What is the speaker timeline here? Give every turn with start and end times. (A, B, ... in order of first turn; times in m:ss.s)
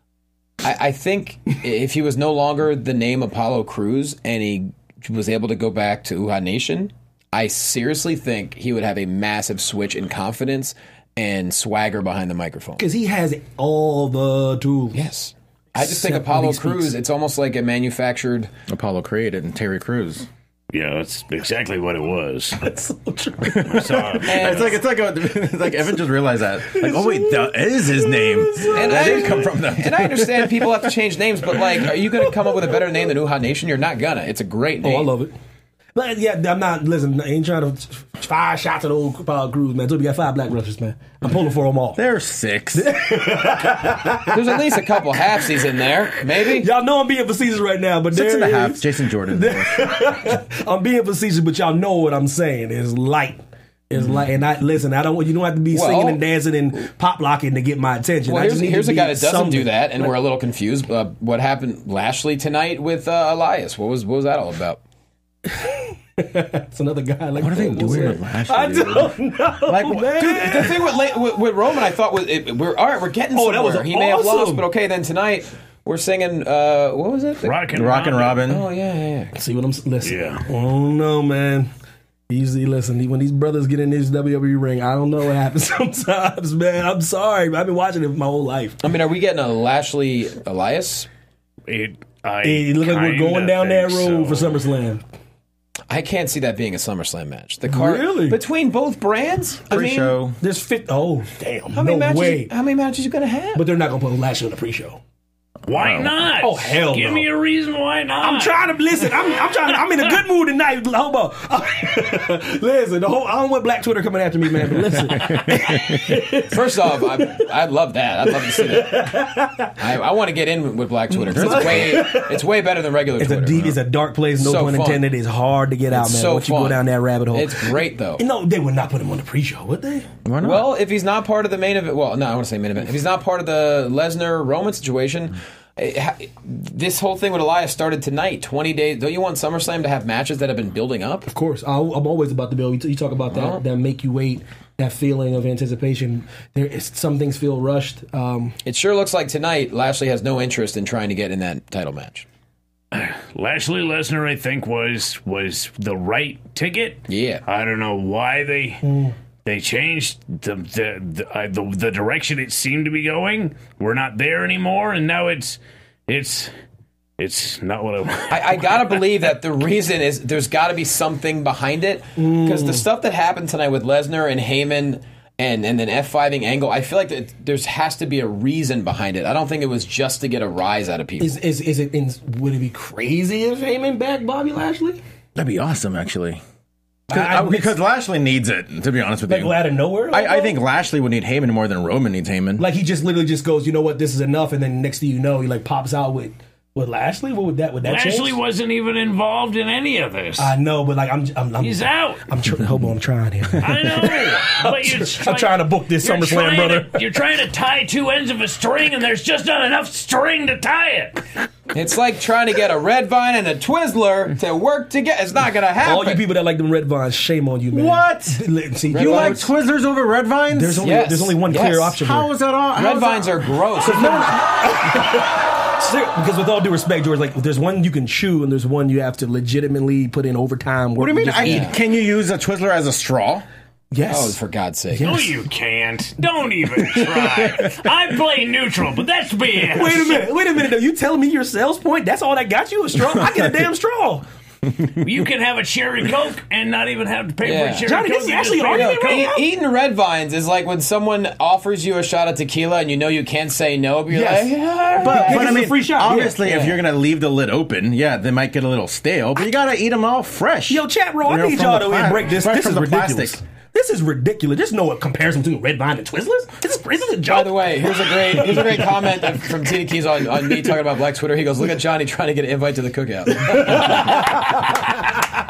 0:00.6-0:12.8 A
0:12.8-0:15.0 B
0:14.9-0:18.5 A
0:15.8-0:17.0 B
0:18.7-0:20.3 C
0:20.7-0:22.6 D
0:22.6-0:23.8 B
0:23.4-0:30.9 C
0:23.6-0:24.7 D
0:24.3-0:24.8 A
0:26.6-0:29.5 B
0:28.7-0:35.1 A
0:34.8-0:35.3 B
0:36.0-0:42.0 B
0:42.0-0:42.9 C
0:42.7-0:45.0 B
0:44.3-0:46.7 A
0:46.5-1:00.1 B
0:48.1-0:50.1 C
0:55.7-0:56.2 A
0:58.3-1:04.8 A
1:05.5-1:11.0 B
1:07.4-1:10.7 C
1:10.2-1:17.6 A
1:13.3-1:14.7 B
1:17.4-1:18.5 D
1:17.7-1:18.7 C
1:18.5-1:19.4 A
1:19.4-1:21.7 B
1:20.0-1:20.4 D
1:22.3-1:28.8 B
1:28.8-1:31.1 A
1:31.7-1:34.6 D
1:32.4-1:35.0 B
1:35.9-1:40.2 A
1:37.7-1:38.4 B
1:39.7-1:40.4 C
1:40.4-1:42.5 B
1:41.7-1:43.6 A
1:43.6-1:45.0 B
1:45.7-1:48.6 D
1:45.7-1:46.1 C
1:46.4-1:47.3 B
1:48.2-1:57.5 B
1:54.9-1:56.2 C
1:56.5-1:59.1 A
1:58.3-1:59.8 B
1:59.8-2:03.7 A
2:01.1-2:02.5 B
2:01.3-2:02.0 C
2:03.2-2:10.1 B
2:04.4-2:05.1 A
2:05.9-2:08.2 A
2:10.2-2:10.7 C
2:10.4-2:21.3 A
2:21.3-2:28.6 B
2:23.3-2:23.6 A
2:28.6-2:32.3 A
2:32.9-2:38.8 D
2:37.1-2:37.4 A
2:38.8-2:39.1 B
2:39.4-2:46.5 D
2:47.2-2:49.1 D
2:48.3-3:01.4 A
2:52.2-2:52.9 B
3:01.2-3:05.0 B
3:05.4-3:06.4 C
3:07.1-3:07.8 B
3:07.1-3:12.7 C
3:09.3-3:10.6 B
3:12.6-3:18.4 B
3:17.8-3:20.5 D
3:20.4-3:27.0 B
3:21.6-3:22.2 D
3:23.6-3:31.3 D
3:31.7-3:36.3 A
3:35.8-3:39.5 B
3:37.7-3:41.0 C
3:38.9-3:39.5 A
3:40.5-3:42.3 B
3:40.8-3:42.0 A
3:42.0-3:44.0 C
3:42.7-3:44.3 A
3:43.8-3:51.7 B
3:51.0-3:53.4 C
3:51.4-3:51.7 A
3:53.9-3:54.4 B
3:54.1-3:55.3 A
3:54.9-3:55.3 B
3:55.0-4:00.3 D
3:59.7-4:04.2 B
4:05.0-4:09.3 D
4:07.4-4:07.9 A
4:07.8-4:09.4 B
4:08.7-4:15.7 A
4:14.1-4:16.4 B
4:15.0-4:23.4 C
4:16.4-4:16.8 A
4:20.7-4:29.1 B
4:27.3-4:34.4 A
4:33.4-4:34.5 B